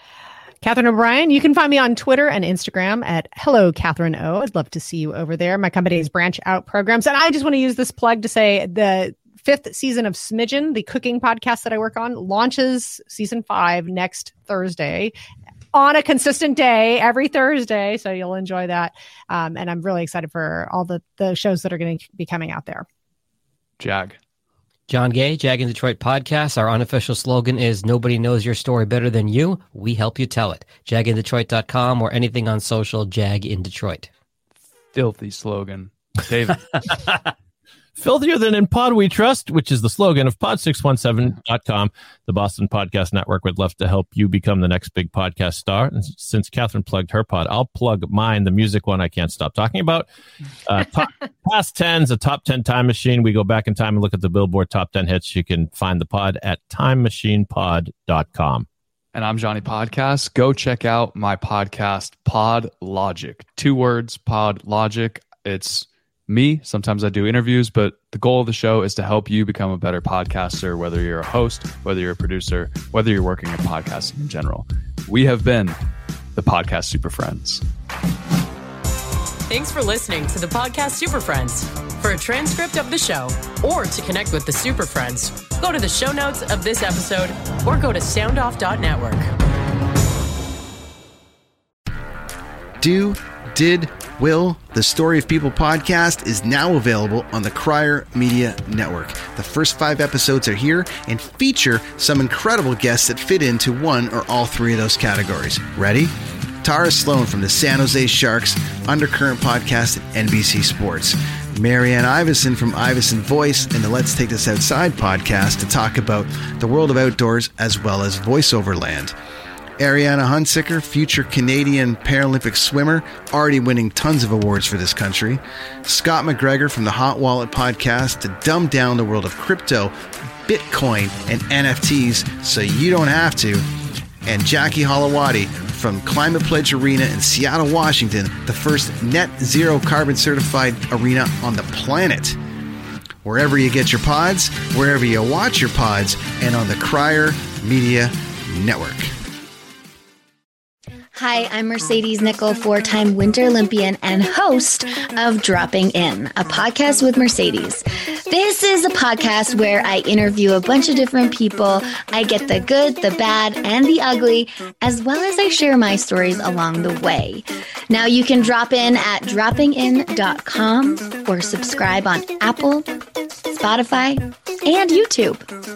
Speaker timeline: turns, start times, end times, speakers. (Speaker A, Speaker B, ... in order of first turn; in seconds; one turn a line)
Speaker A: 0.6-15.1
Speaker A: 15.7-22.9
Speaker B: 23.8-24.2
Speaker C: 24.9-34.1
Speaker B: 34.9-36.9
Speaker D: 38.0-50.1
Speaker D: 50.6-58.7
Speaker B: 59.1-75.8
Speaker B: 76.4-77.6
Speaker E: 79.5-89.3
Speaker F: 92.8-106.1
Speaker F: 106.6-119.1
Speaker F: 119.8-133.7
Speaker F: 134.3-142.4
Speaker F: 143.2-149.1
Speaker G: 151.2-172.9
Speaker G: 173.5-175.4